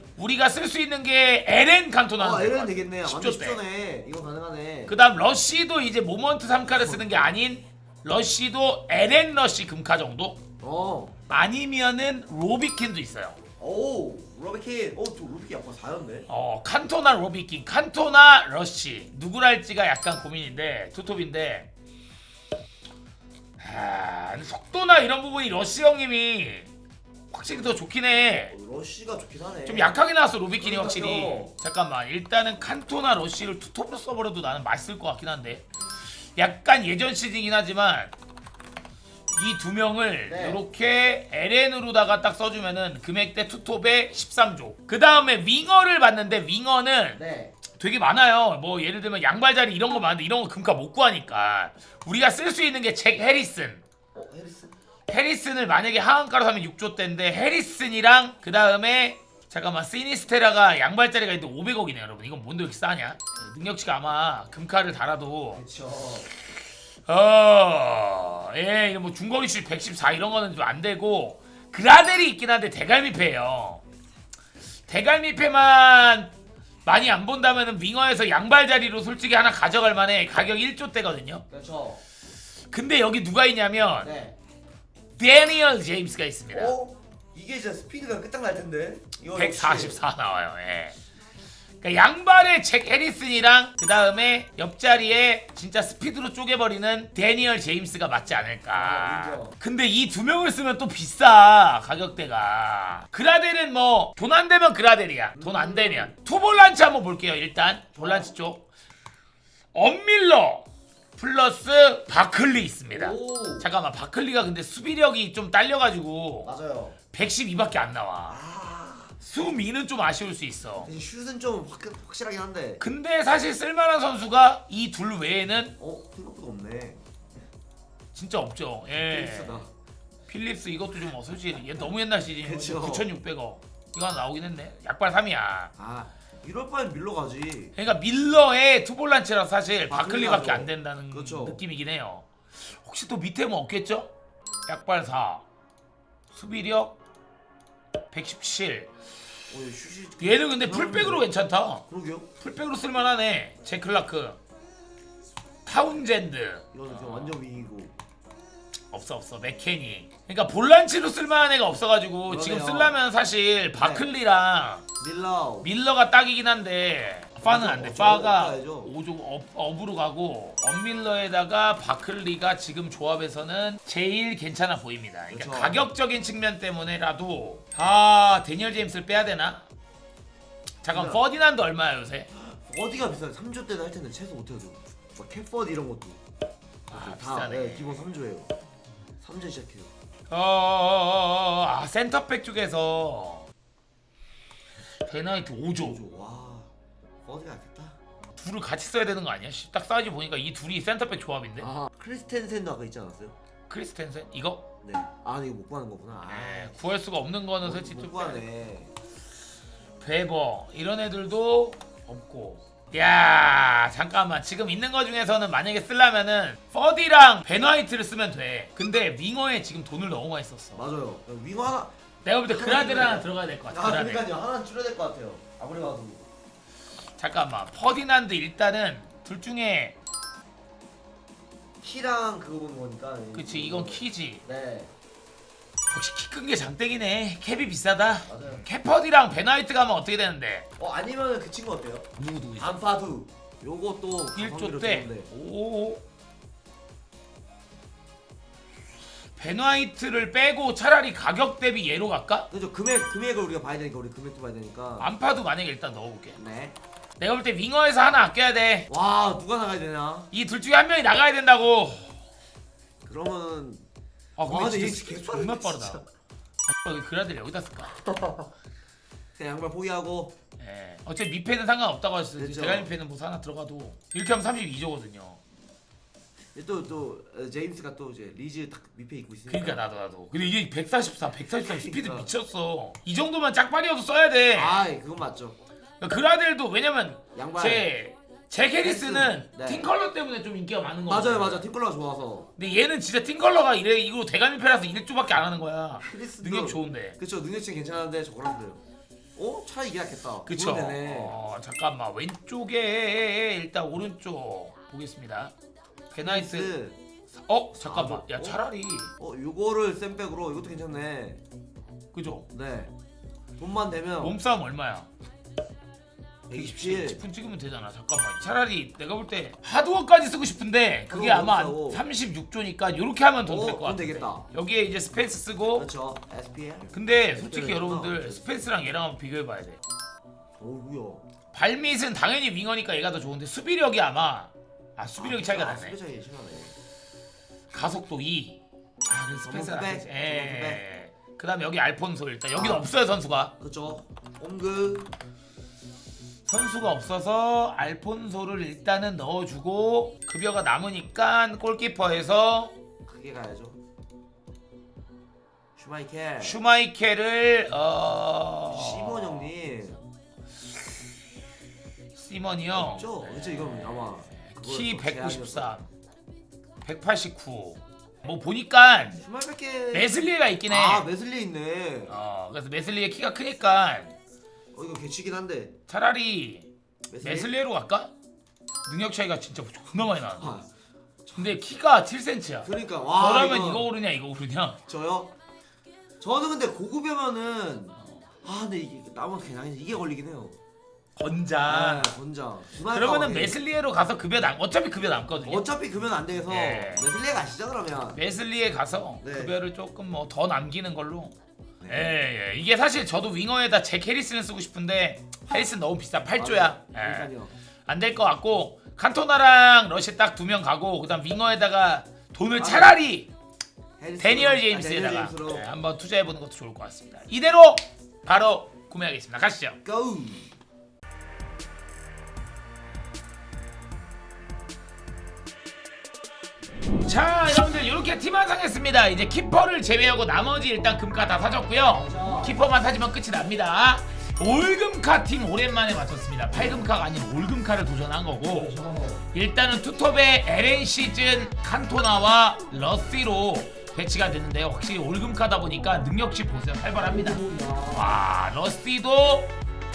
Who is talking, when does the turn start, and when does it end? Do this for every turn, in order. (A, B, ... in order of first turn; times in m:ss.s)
0:00.2-0:03.6 A
0:02.2-0:05.0 B
0:04.9-0:10.4 A
0:06.7-0:07.1 B
0:10.6-0:11.1 B
0:11.3-0:13.4 A
0:13.6-0:16.3 B
0:16.3-0:21.7 A
0:23.6-0:26.7 A
0:27.3-0:28.6 A
0:28.5-0:30.0 B
0:29.6-0:38.1 A
0:30.6-0:31.5 B
0:39.3-0:53.8 A
0:40.2-0:40.6 B
0:47.1-0:47.5 B
0:54.1-0:54.7 B
0:55.1-1:05.6 A
1:05.5-1:06.3 B
1:07.1-1:13.8 A
1:14.9-1:16.3 A
1:16.8-1:21.4 A
1:21.5-1:22.0 B
1:22.7-1:24.1 A
1:24.0-1:24.4 B
1:25.2-1:26.7 A
1:26.5-1:30.0 B
1:29.3-1:31.0 A
1:31.8-1:48.7 A
1:38.7-1:39.6 B
1:45.4-1:46.1 B
1:48.0-1:48.3 B
1:49.7-1:50.6 A
1:51.2-1:56.5 A
1:52.9-1:53.7 B
1:56.4-1:57.0 B
1:57.1-1:58.4 A
1:58.3-1:59.2 B
1:59.2-2:00.9 A
2:00.8-2:02.8 B
2:02.8-2:05.8 A
2:05.8-2:07.0 B
2:08.1-2:09.6 A
2:08.9-2:09.7 B
2:10.3-2:15.7 A
2:12.4-2:13.1 B
2:15.8-2:17.8 B
2:17.8-2:24.1 A
2:19.9-2:21.6 B
2:24.7-2:25.4 A
2:26.3-2:27.0 A
2:28.1-2:28.9 A
2:29.5-2:31.3 B
2:30.2-2:31.8 A
2:31.9-2:32.3 B
2:32.4-2:34.4 A
2:35.6-2:37.4 A
2:36.7-2:37.9 B
2:38.9-2:44.9 A
2:42.2-2:43.0 B
2:43.8-2:44.1 B
2:45.0-2:45.7 B
2:45.6-2:59.6 A
2:47.4-2:48.9 B
2:55.3-2:55.9 B
3:00.8-3:02.3 A
3:00.9-3:01.2 B
3:02.3-3:06.2 B
3:06.9-3:08.5 B
3:06.9-3:08.1 A
3:09.2-3:09.9 B
3:10.3-3:13.5 A
3:15.0-3:16.0 A
3:15.8-3:16.7 B
3:17.2-3:18.0 B
3:18.4-3:21.7 A
3:21.6-3:23.4 B
3:23.7-3:24.7 A
3:24.8-3:26.9 B
3:26.2-3:28.5 A
3:27.6-3:28.9 B
3:30.0-3:40.8 A
3:40.8-3:41.9 B
3:42.2-3:44.3 A
3:42.5-3:46.2 B
3:47.2-3:50.0 A
3:51.8-3:54.9 B
3:53.3-3:54.4 A
3:55.9-4:00.7 A
3:58.3-3:58.7 B
4:00.8-4:05.3 B
4:02.2-4:02.8 A
4:04.3-4:06.0 A
4:09.4-4:12.5 A
4:12.5-4:15.1 B
4:15.0-4:16.4 A
4:16.4-4:16.8 B
4:17.2-4:18.9 A
4:18.9-4:20.3 B
4:20.3-4:22.1 A
4:23.0-4:23.8 B
4:24.4-4:26.0 A
4:24.4-4:26.0 B
4:26.7-4:28.0 A
4:28.1-4:28.4 B
4:29.4-4:30.4 B
4:30.6-4:35.4 A
4:32.4-4:32.9 B
4:36.6-4:39.9 B
4:39.5-4:44.8 A
4:41.6-4:42.3 B
4:44.5-4:45.6 B
4:46.0-4:51.7 A
4:47.3-4:47.9 B
4:48.8-4:49.9 B
4:51.1-4:52.5 B
4:52.6-4:57.2 A
4:56.0-4:58.8 B
4:59.4-5:01.4 B
5:00.4-5:05.5 A
5:06.1-5:06.8 A
5:06.2-5:07.0 B
5:07.4-5:09.1 A
5:07.9-5:08.6 B
5:09.2-5:11.4 B
5:12.1-5:12.5 A
5:12.5-5:12.9 B
5:13.6-5:14.4 B
5:14.2-5:15.1 A
5:16.5-5:17.2 B
5:16.5-5:25.9 A
5:21.1-5:22.0 B
5:23.4-5:24.5 B
5:25.7-5:28.5 B
5:26.9-5:29.8 A
5:30.6-5:31.2 B
5:31.5-5:36.0 A
5:35.2-5:36.8 B
5:37.7-5:43.5 A
5:39.4-5:40.8 B
5:42.6-5:42.9 B
5:43.6-5:45.1 B
5:46.5-5:52.8 A
5:53.0-5:53.8 B
5:55.8-5:56.6 B
5:56.4-5:59.5 A
5:58.7-6:00.0 B
6:02.2-6:05.9 A
6:02.7-6:05.8 B
6:06.8-6:09.2 A
6:09.2-6:10.1 B
6:09.9-6:11.1 A
6:10.7-6:12.2 B
6:12.1-6:14.2 A
6:14.7-6:15.7 B
6:15.9-6:16.7 A
6:17.1-6:17.5 B
6:17.2-6:18.1 A
6:18.9-6:20.6 A
6:20.4-6:20.7 B
6:21.2-6:21.6 B
6:21.4-6:24.8 A
6:22.6-6:23.9 B
6:24.9-6:25.3 B
6:26.2-6:30.6 B
6:31.2-6:32.2 A
6:31.7-6:33.6 B
6:32.8-6:35.7 A
6:35.4-6:38.2 B
6:36.5-6:37.1 A
6:38.1-6:41.3 A
6:39.2-6:39.6 B
6:41.8-6:42.2 B
6:41.9-6:47.3 A
6:46.4-6:47.5 B
6:47.9-6:53.3 A
6:52.6-6:53.0 B
6:54.0-6:55.7 B
6:54.2-6:59.8 A
6:59.8-7:00.5 B
7:07.0-7:18.7 A
7:11.9-7:12.6 B
7:18.5-7:19.2 B
7:19.3-7:29.5 A
7:27.0-7:28.2 B